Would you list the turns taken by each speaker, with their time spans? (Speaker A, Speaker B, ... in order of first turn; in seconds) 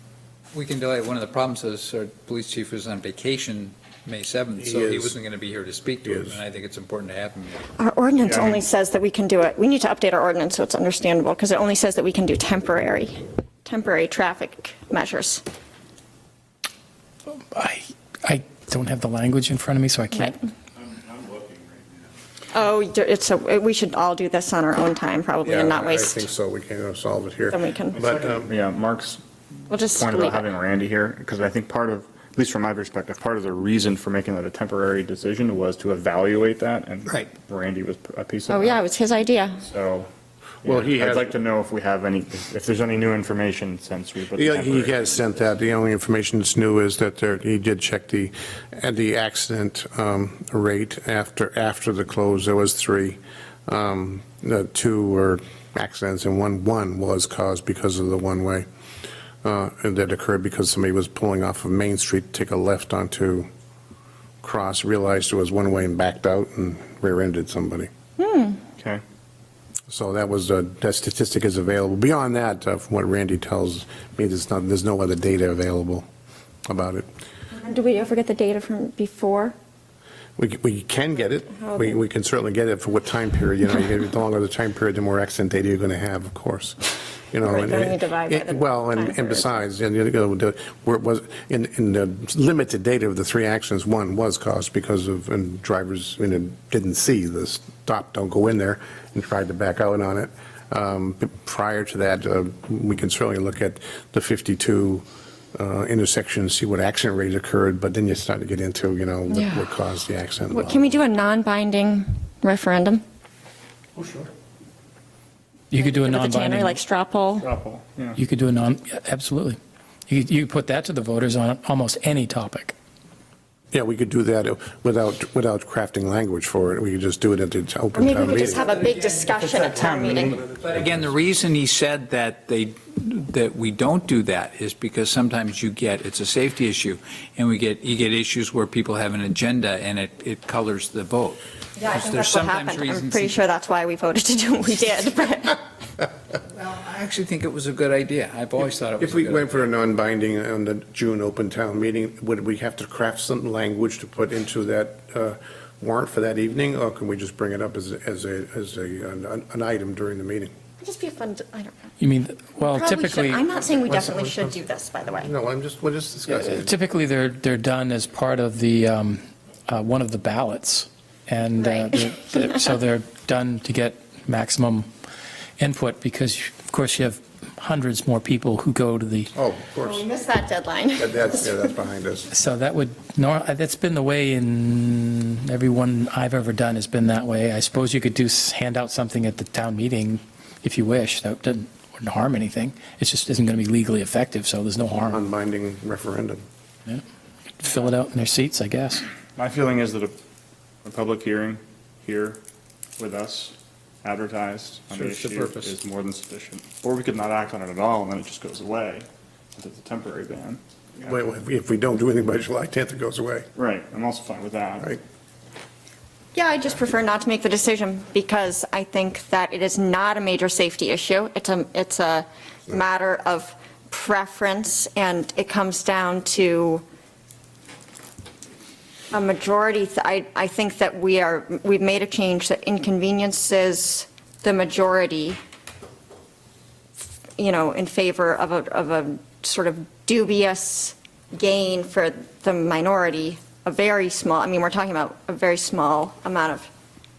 Speaker A: 0.5-7.7, 130.4-143.4, 146.5-149.7, 204.9-205.7
Speaker B: 4.6-5.2, 6.0-6.4, 25.4-28.5, 40.6-41.3, 44.3-58.7, 59.4-63.5, 64.4-67.9, 69.9-76.0, 76.7-77.1, 80.4-110.9, 114.0-114.2, 123.7-128.7, 149.0-160.5, 163.9-164.5, 165.2-166.7, 179.3-180.1, 180.9-182.3, 195.0-196.4, 211.0-213.5
Speaker C: 7.8-15.4, 22.5-26.2, 27.5-28.0, 29.7-30.4, 38.5-39.6, 68.2-68.6, 77.5-79.5, 81.5-82.0, 87.4-89.5, 109.3-109.7, 110.5-113.0, 115.8-117.5, 127.9-130.4, 141.8-145.6, 160.8-161.8, 162.6-165.3, 171.6-172.7, 179.8-181.4, 216.3-226.8, 229.1-235.4, 237.4-246.7
Speaker D: 8.2-8.6, 28.0-29.2, 29.9-38.8, 39.6-40.1, 40.6-45.3, 117.4-118.2, 129.7-130.4, 199.3-200.1, 200.8-202.4, 203.0-210.6, 213.6-215.0
Speaker E: 17.5-20.4, 115.7-116.8, 118.2-122.7, 162.0-163.4, 166.2-174.9, 175.6-179.3, 182.3-195.2, 197.6-199.1